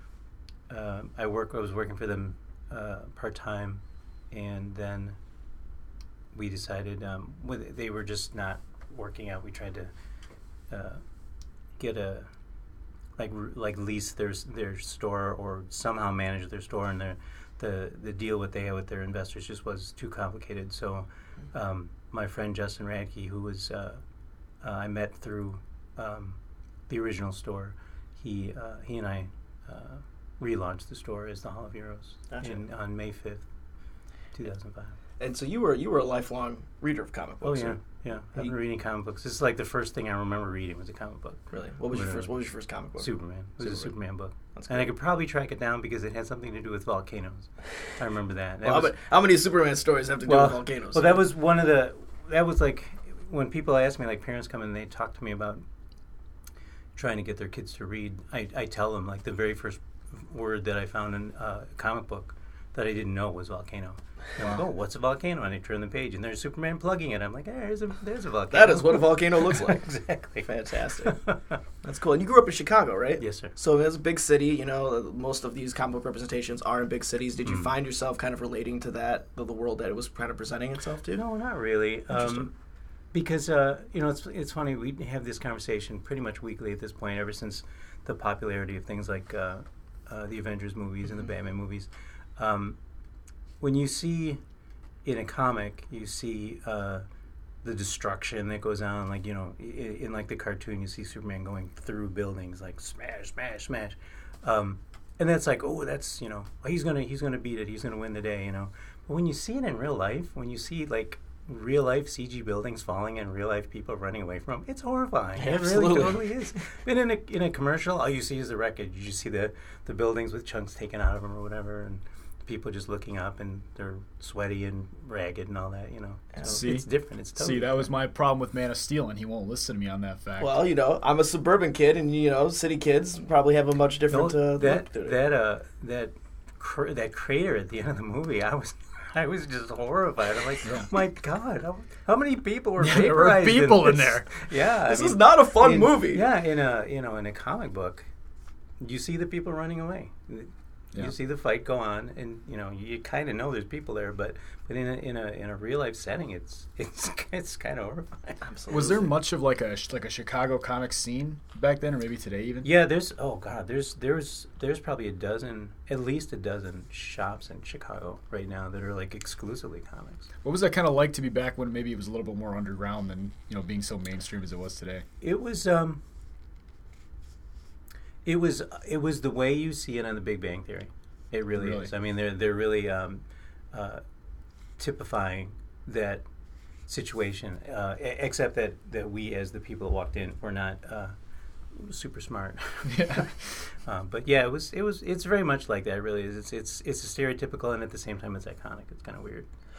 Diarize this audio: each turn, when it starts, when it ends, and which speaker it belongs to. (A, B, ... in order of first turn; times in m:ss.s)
0:00.7-0:05.2 A
0:06.3-0:09.9 A
0:10.7-0:11.0 A
0:11.8-0:12.3 A
0:13.2-0:24.0 A
0:24.6-0:33.4 A
0:32.3-0:32.6 B
0:34.4-0:35.0 A
0:35.2-0:37.8 B
0:37.4-0:42.3 A
0:41.5-0:43.9 B
0:43.0-0:49.0 A
0:44.6-0:44.9 B
0:48.6-0:51.3 B
0:50.3-0:55.6 A
0:57.0-1:10.5 A
1:08.5-1:09.9 B
1:10.4-1:11.2 B
1:11.0-1:11.6 A
1:11.8-1:21.2 B
1:13.2-1:13.5 A
1:21.1-1:22.5 A
1:22.1-1:22.5 B
1:23.1-1:32.8 A
1:33.6-1:34.4 A
1:35.0-1:37.0 A
1:37.6-2:07.9 A
1:55.4-1:56.3 B
2:06.3-2:06.6 B
2:06.4-2:10.6 C
2:10.4-2:15.2 B
2:14.1-2:28.1 A
2:22.8-2:24.3 C
2:24.9-2:26.3 B
2:28.8-2:38.4 A
2:38.4-2:39.1 B
2:38.7-2:42.7 C
2:42.6-2:50.3 A
2:50.4-2:55.0 C
2:55.2-2:56.0 A
2:58.2-3:04.0 A
3:01.5-3:01.9 C
3:04.8-3:06.2 A
3:06.9-3:11.1 A
3:11.7-3:13.3 A
3:12.9-3:13.3 C
3:13.8-3:19.5 A